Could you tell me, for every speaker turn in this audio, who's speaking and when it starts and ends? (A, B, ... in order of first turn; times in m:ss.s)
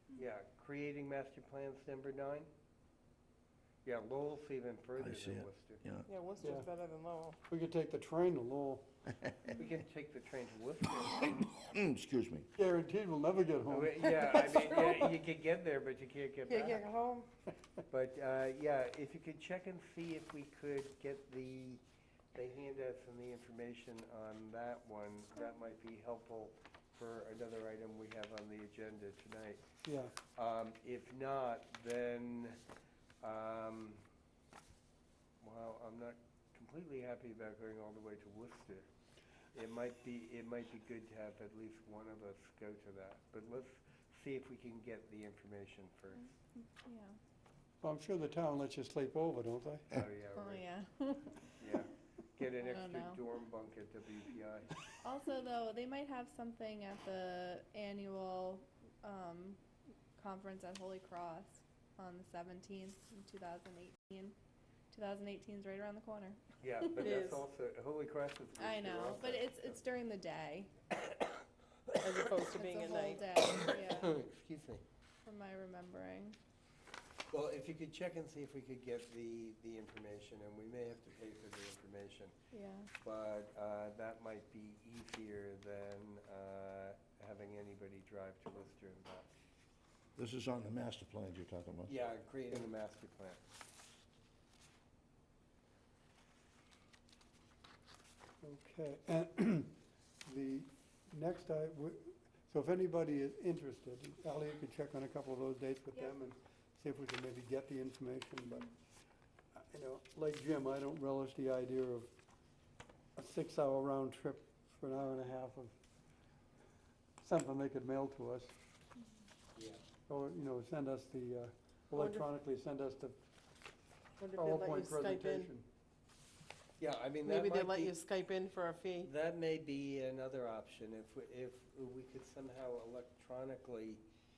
0:00.1-0:02.5 A
0:03.8-0:05.8 A
0:05.2-0:06.0 B
0:06.0-0:07.4 C
0:06.4-0:06.7 D
0:07.5-0:08.9 D
0:09.6-0:11.5 A
0:11.7-0:12.4 B
0:12.6-0:15.1 D
0:13.7-0:16.8 A
0:16.5-0:17.3 C
0:17.9-0:21.8 A
0:22.3-0:29.6 A
0:29.8-0:30.1 D
0:30.2-0:32.6 A
0:33.2-0:34.0 A
0:35.4-0:38.9 A
0:39.5-0:46.3 A
0:46.2-0:47.2 E
0:47.8-0:49.9 D
0:49.9-0:50.6 A
0:50.4-0:51.6 E
0:51.6-0:54.8 A
0:52.6-0:53.2 E
0:55.0-0:59.6 E
1:00.2-1:04.4 E
1:04.9-1:06.4 E
1:06.6-1:09.8 A
1:07.0-1:07.4 C
1:08.6-1:10.7 E
1:12.0-1:13.2 C
1:12.5-1:14.2 E
1:13.4-1:14.8 A
1:15.2-1:16.4 E
1:17.3-1:22.3 A
1:22.5-1:22.9 E
1:23.0-1:29.3 A
1:30.2-1:31.9 B
1:31.8-1:33.4 A
1:38.4-1:39.7 D
1:40.2-1:48.7 D
1:49.6-1:52.1 D
1:53.2-1:55.7 D
1:57.2-1:58.5 D
1:59.6-1:59.8 A
2:00.1-2:03.2 D
2:01.9-2:02.3 C
2:04.2-2:05.5 C
2:04.4-2:05.7 D
2:06.8-2:08.0 A
2:07.2-2:09.1 C
2:09.0-2:14.0 A